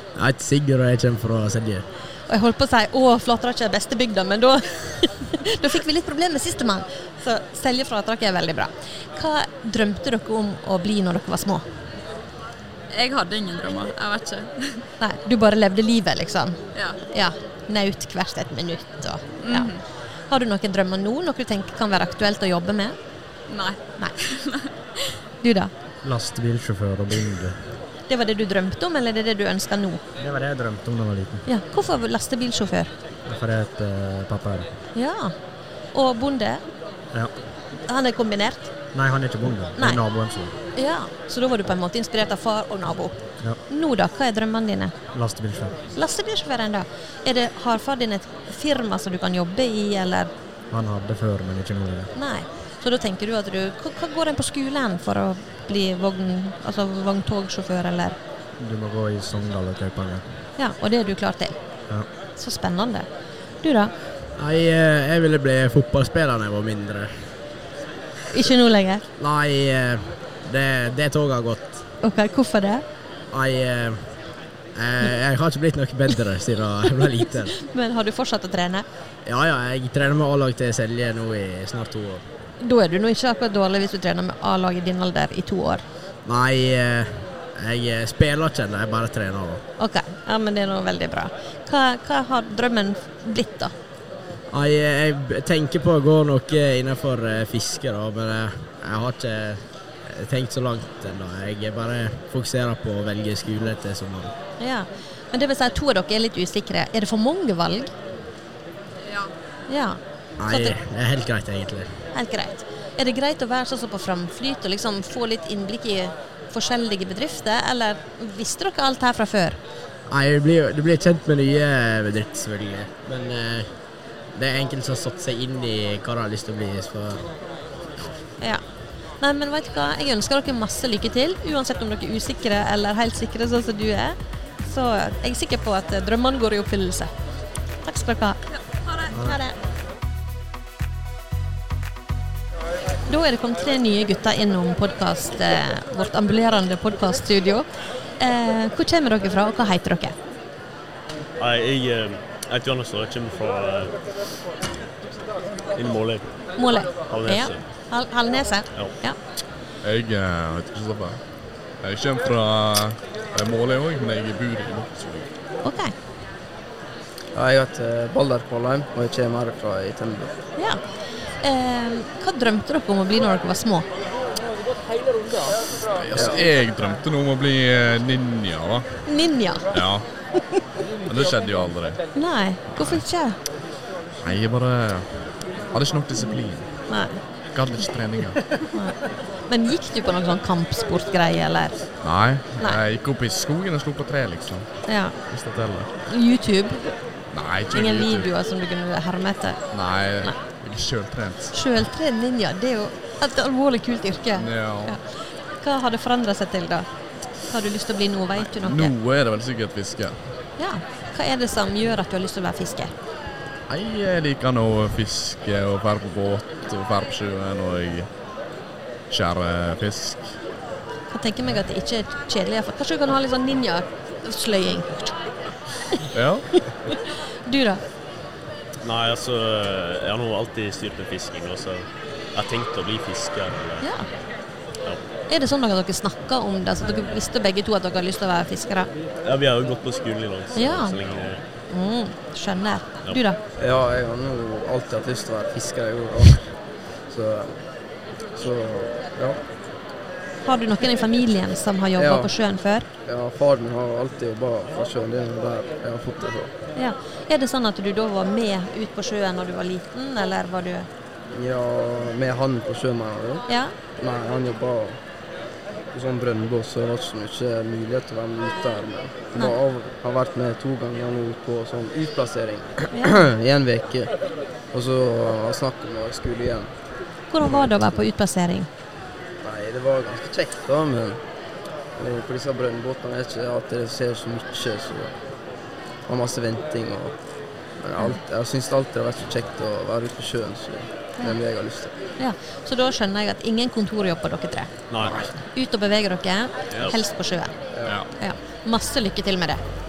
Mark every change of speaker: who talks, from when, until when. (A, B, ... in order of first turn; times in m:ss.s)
0:00.2-0:01.8 A
0:02.3-0:11.6 B
0:12.9-0:14.8 C
0:15.0-0:16.6 B
0:16.7-0:17.0 C
0:17.1-0:19.8 B
0:19.4-0:19.8 C
0:20.3-0:23.0 B
0:23.5-0:24.7 C
0:25.4-0:25.7 B
0:26.0-0:27.8 D
0:28.1-0:30.0 B
0:30.2-0:31.4 D
0:31.5-0:32.9 B
0:33.3-0:34.7 D
0:34.9-0:35.4 B
0:35.9-0:36.6 B
0:37.9-0:38.7 B
0:38.9-0:40.6 D
0:39.7-0:40.1 B
0:40.7-0:45.0 B
0:45.1-0:45.8 D
0:46.0-0:50.3 B
0:50.7-0:52.1 D
0:52.2-0:58.2 B
0:58.6-1:00.3 D
1:00.6-1:01.6 B
1:02.4-1:03.1 B
1:03.6-1:03.9 B
1:04.4-1:07.4 A
1:08.3-1:09.0 B
1:09.2-1:11.9 A
1:12.0-1:12.8 B
1:13.3-1:14.2 A
1:14.8-1:17.6 A
1:17.6-1:18.9 B
1:19.3-1:22.2 A
1:22.6-1:25.8 B
1:26.2-1:29.6 A
1:29.8-1:33.7 B
1:34.5-1:44.3 A
1:44.6-1:47.9 B
1:49.1-1:49.3 C
1:49.7-1:50.8 B
1:50.4-1:51.9 A
1:52.1-1:59.6 B
2:00.1-2:03.8 A
2:04.3-2:07.3 A
2:09.2-2:17.1 B
2:17.8-2:18.4 B
2:18.9-2:19.2 C
2:19.1-2:19.6 B
2:23.1-2:27.7 B
2:28.2-2:30.2 B
2:31.4-2:34.0 E
2:35.7-2:36.3 E
2:36.6-2:39.2 B
2:37.1-2:37.6 E
2:38.7-2:39.0 E
2:39.8-2:41.2 F
2:41.8-2:45.3 F
2:45.6-2:45.9 B
2:47.4-2:50.3 G
2:51.4-2:53.9 B
2:55.8-2:59.0 F
2:56.1-2:56.4 G
2:59.1-2:59.7 B
2:59.7-3:00.1 F
3:01.0-3:02.0 F
3:02.1-3:03.4 B
3:02.7-3:03.0 F
3:04.2-3:06.7 F
3:06.9-3:07.2 B
3:07.5-3:08.4 F
3:08.7-3:12.8 B
3:12.0-3:15.9 F
3:14.9-3:15.2 B
3:16.0-3:16.9 B
3:17.3-3:18.3 F
3:17.7-3:20.4 B
3:19.7-3:21.6 F
3:21.5-3:26.9 B
3:24.4-3:25.0 F
3:27.4-3:28.9 B
3:28.4-3:30.3 F
3:30.6-3:32.9 B
3:33.7-3:38.1 F
3:39.1-3:40.4 F
3:41.1-3:45.2 B
3:46.1-3:46.5 F
3:47.5-3:47.8 B
3:48.8-3:53.9 E
3:53.8-3:54.1 B
3:55.3-3:58.9 B
3:59.2-4:01.4 E
4:00.6-4:01.0 B
4:01.7-4:03.4 B
4:03.6-4:07.6 G
4:08.4-4:09.4 G
4:10.4-4:12.9 B
4:12.0-4:12.3 G
4:13.1-4:16.5 G
4:16.8-4:20.9 B
4:21.3-4:23.4 G
4:23.5-4:23.7 B
4:24.0-4:25.0 G
4:25.9-4:34.1 G
4:34.7-4:36.7 G
4:37.3-4:38.7 B
4:37.4-4:38.0 G
4:39.4-4:41.2 G
4:42.0-4:45.2 G
4:46.1-4:47.2 G
4:47.8-4:52.0 G
4:52.2-4:54.7 B
4:54.9-4:55.3 E
4:55.0-4:55.3 F
4:55.5-4:57.6 B
4:57.7-4:58.0 G
4:57.9-4:58.1 F
4:58.2-4:59.6 B